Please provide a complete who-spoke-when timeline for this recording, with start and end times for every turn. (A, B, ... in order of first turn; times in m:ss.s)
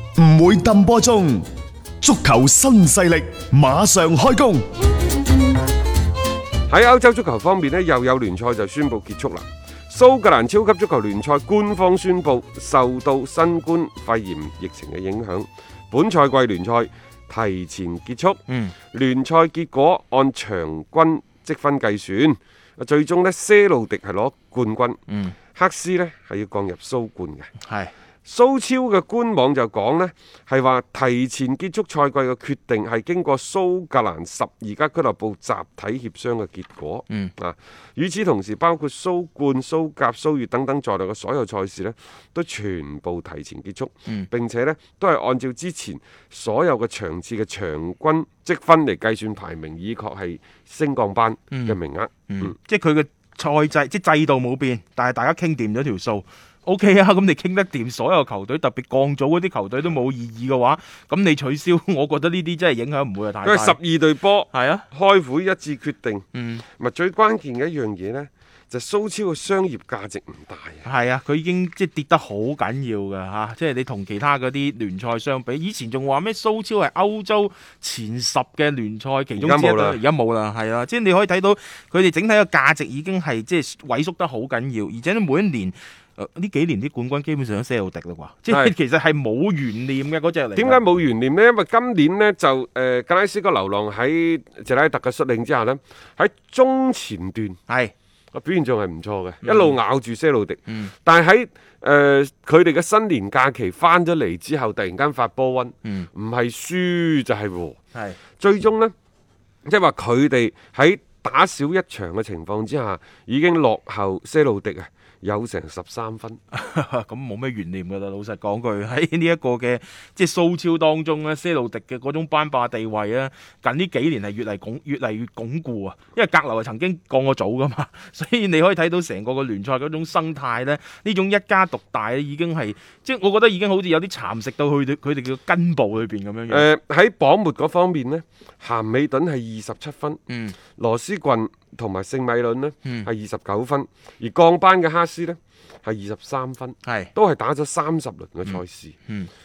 0:00.2-0:01.4 A
0:02.0-0:04.6 A
0:06.7-0:18.4 B
0:18.5-0:18.7 C
0:18.9-0:25.0 B
0:25.1-0:25.4 C
0:25.5-0:27.5 B
0:27.6-0:27.9 C
0:28.2-0:52.5 B
0:51.5-0:51.8 C
0:52.3-1:03.8 C
1:03.4-1:10.8 B
1:04.5-1:04.8 C
1:06.3-1:06.6 C
1:10.8-1:30.8 C
1:19.4-1:20.0 B
1:28.5-1:28.7 B
1:30.6-1:37.6 B
1:37.7-1:37.9 C
1:38.3-1:47.8 B
1:39.4-1:39.8 C
1:40.7-1:40.9 C
1:47.9-1:48.2 C
1:48.4-1:48.9 B
1:49.6-1:56.4 B
1:56.5-2:16.6 C
2:16.5-2:20.2 B
2:20.3-2:20.6 C
2:20.8-2:29.0 B
2:22.8-2:23.1 C
2:26.8-2:27.1 C
2:28.4-2:29.3 C